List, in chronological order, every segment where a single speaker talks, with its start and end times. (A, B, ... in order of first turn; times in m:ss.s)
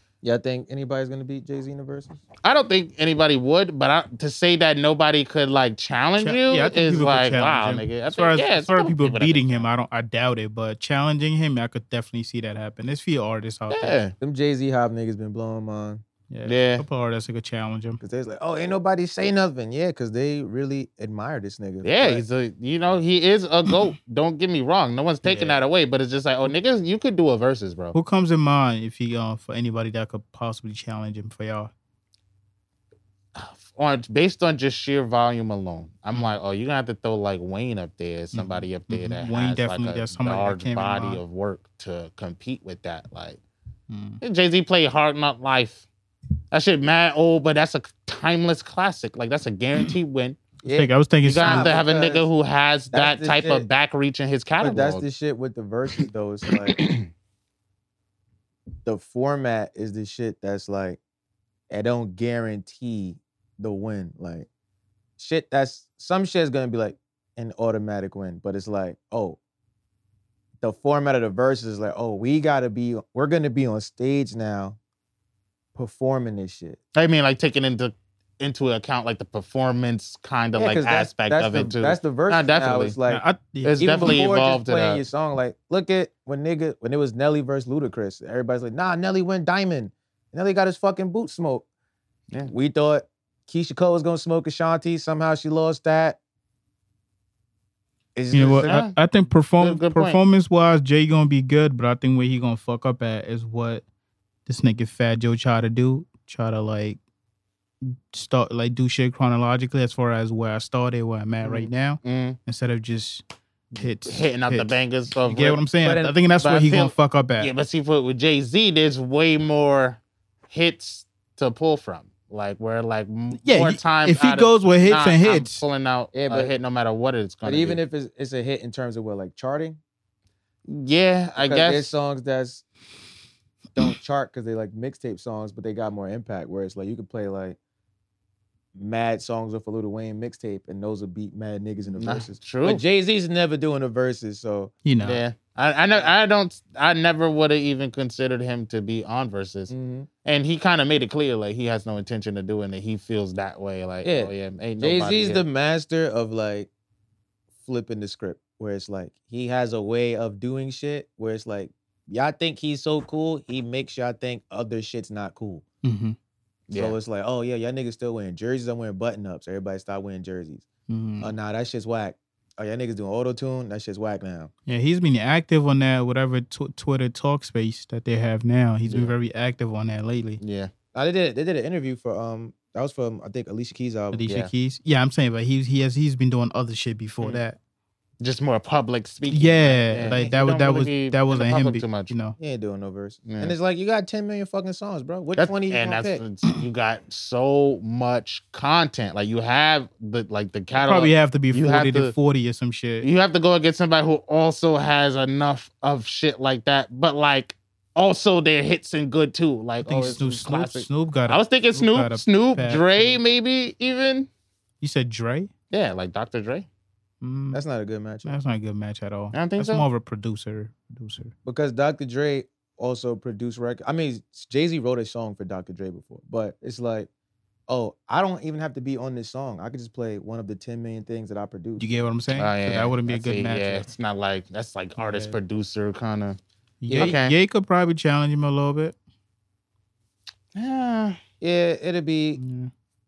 0:00.2-0:02.2 A
0:02.4-0:09.7 B
0:06.2-0:14.0 C
0:13.7-0:14.1 B
0:14.2-0:16.0 A
0:16.3-0:18.0 C
0:16.5-0:16.8 B
0:18.0-0:22.2 A
0:21.8-0:28.0 B
0:25.3-0:25.5 C
0:27.9-0:31.7 C
0:33.4-0:43.4 B
0:38.3-0:41.2 C
0:43.9-0:44.2 C
0:44.2-0:45.9 B
0:46.5-0:50.4 B
0:50.6-0:52.3 A
0:50.7-0:51.8 C
0:51.2-0:55.0 B
0:52.9-0:53.7 A
0:54.6-0:56.8 A
0:58.8-1:01.0 A
1:01.7-1:04.5 A
1:05.2-1:09.4 A
1:10.6-1:14.8 A
1:15.8-1:16.8 A
1:17.0-1:23.0 B
1:20.6-1:23.2 A
1:23.1-1:24.2 C
1:23.6-1:25.0 B
1:23.8-1:31.6 A
1:32.4-1:36.2 A
1:38.2-1:38.8 A
1:38.3-1:43.8 C
1:38.4-1:39.0 B
1:39.6-1:40.2 B
1:44.5-1:47.0 C
1:47.8-1:54.8 C
1:51.4-1:52.4 B
1:54.1-1:55.6 B
1:55.3-1:57.5 C
1:55.8-1:56.2 A
1:56.4-2:07.8 B
2:03.4-2:05.6 C
2:06.1-2:06.5 A
2:07.4-2:09.8 A
2:10.7-2:12.0 B
2:11.4-2:12.7 A
2:13.8-2:17.6 A
2:18.8-2:24.7 A
2:22.0-2:22.8 B
2:24.8-2:25.2 C
2:25.0-2:29.7 B
2:29.7-2:30.1 A
2:30.2-2:35.4 B
2:34.0-2:36.7 A
2:37.6-2:45.6 A
2:45.8-2:46.2 C
2:46.7-2:47.0 B
2:46.8-2:50.7 A
2:50.9-2:51.3 C
2:51.2-2:54.5 A
2:54.7-3:00.4 C
2:58.9-2:59.1 B
3:00.4-3:00.7 B
3:00.9-3:04.2 A
3:04.1-3:07.6 C
3:08.2-3:12.1 B
3:09.3-3:12.4 C
3:10.0-3:10.3 A
3:12.4-3:16.2 A
3:13.3-3:13.6 B
3:15.4-3:22.1 B
3:20.8-3:23.1 C
3:23.0-3:34.3 B
3:29.8-3:33.2 C
3:34.8-3:35.5 C
3:35.7-3:36.7 B
3:37.2-3:37.6 C
3:37.5-3:38.4 A
3:38.2-3:41.3 C
3:39.3-3:39.8 B
3:41.4-3:47.1 A
3:47.7-3:51.8 A
3:51.8-3:53.9 C
3:52.3-3:56.4 B
3:55.0-3:55.4 C
3:56.8-3:59.0 C
3:56.9-3:57.2 A
3:57.0-3:57.4 B
4:00.5-4:01.2 B
4:01.4-4:02.4 A
4:02.4-4:02.7 C